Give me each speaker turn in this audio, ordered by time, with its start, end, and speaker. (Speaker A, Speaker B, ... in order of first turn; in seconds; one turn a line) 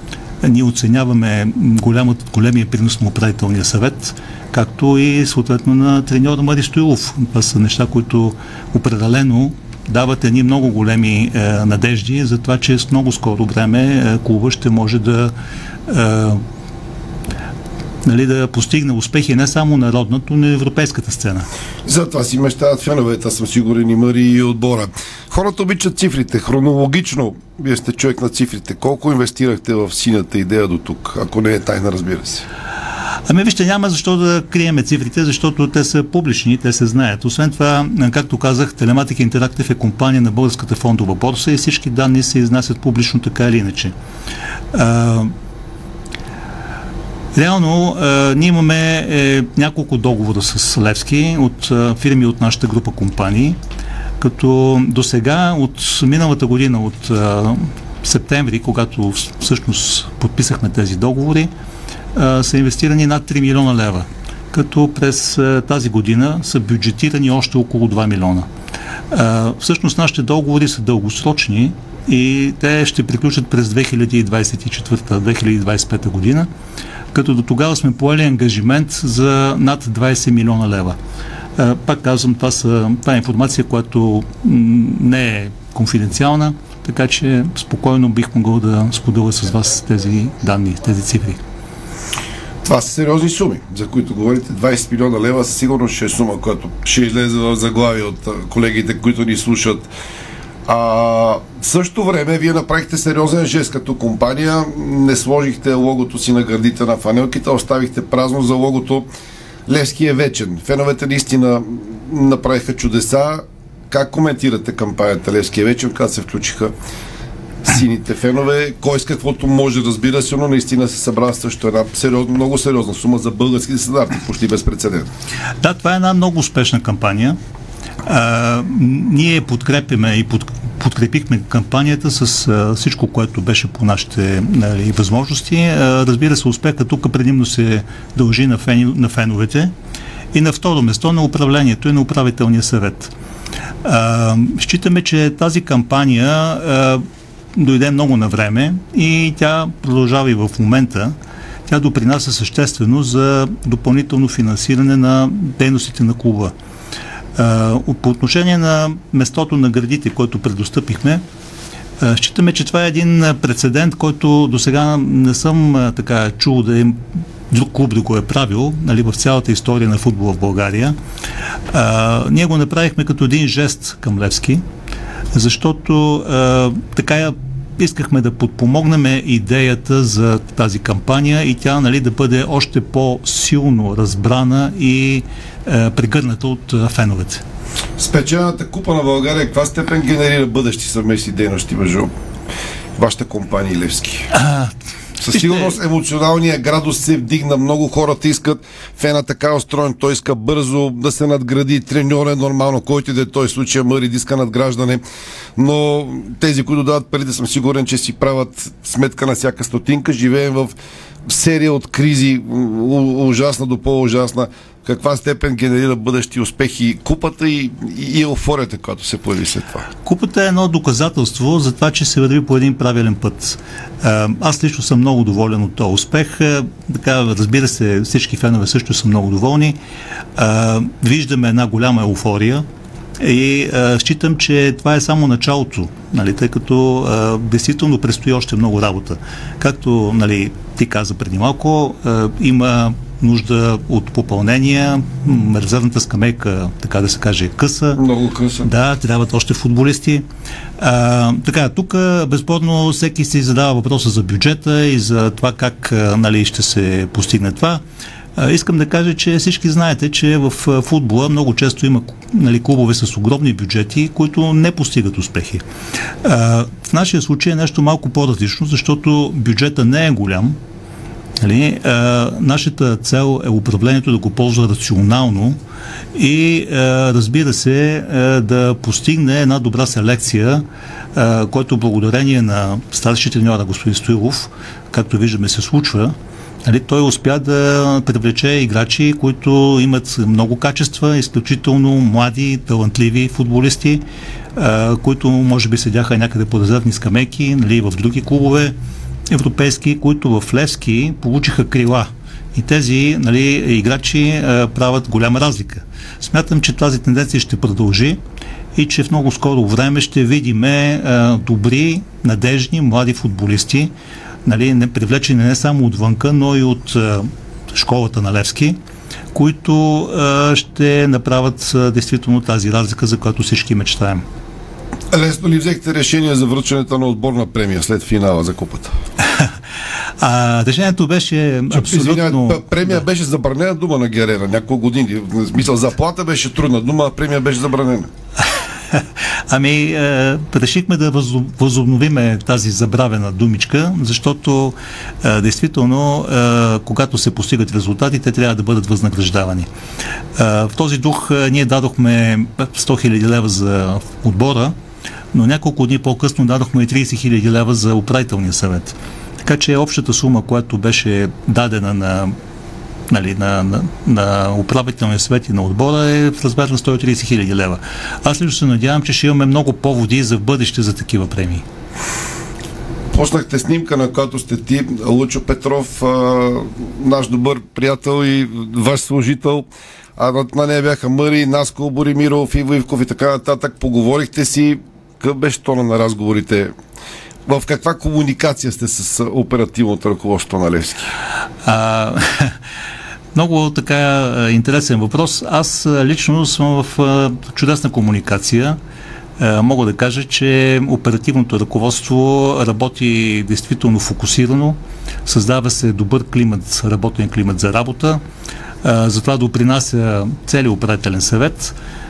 Speaker A: 0.4-15.3
Speaker A: 15.9-16.4
Speaker A: 18.1-21.5
Speaker B: 21.9-32.5
Speaker A: 33.3-43.9
Speaker A: 44.7-45.3
Speaker A: 47.4-53.6
Speaker A: 54.2-61.5
Speaker A: 62.1-68.5
Speaker A: 69.1-76.5
Speaker A: 77.1-81.0
Speaker A: 81.6-91.4
Speaker B: 92.7-99.9
Speaker B: 100.7-109.1
Speaker B: 109.7-116.7
Speaker B: 117.7-125.1
Speaker A: 125.6-127.4
Speaker A: 128.1-139.7
Speaker A: 140.3-143.1
Speaker A: 143.8-147.0
Speaker A: 147.6-151.2
Speaker A: 151.7-156.5
Speaker A: 157.4-161.2
Speaker A: 162.0-171.0
Speaker A: 171.7-174.6
Speaker A: 175.3-187.4
Speaker B: 188.0-192.1
Speaker B: 193.0-194.3
Speaker A: 194.3-195.7
Speaker B: 195.2-205.0
Speaker B: 205.6-210.7
Speaker B: 211.3-219.9
Speaker A: 220.1-229.8
Speaker A: 230.4-232.7
Speaker A: 233.2-248.0
Speaker B: 248.0-248.7
Speaker A: 248.6-250.2
Speaker A: 250.8-257.8
Speaker A: 258.4-265.6
Speaker A: 266.2-270.6
Speaker A: 271.4-275.6
Speaker A: 276.1-294.0
Speaker A: 294.6-298.8
Speaker A: 299.3-308.2
Speaker A: 308.8-313.9
Speaker A: 314.5-318.8
Speaker A: 319.3-324.2
Speaker B: 325.1-328.9
Speaker A: 330.2-333.0
Speaker B: 331.7-338.1
Speaker A: 338.9-349.7
Speaker A: 350.4-354.8
Speaker A: 355.3-362.4
Speaker A: 363.1-371.6
Speaker B: 373.1-386.7
Speaker B: 387.5-391.1
Speaker A: 391.6-392.6
Speaker A: 393.4-398.8
Speaker A: 399.4-408.2
Speaker A: 408.8-411.8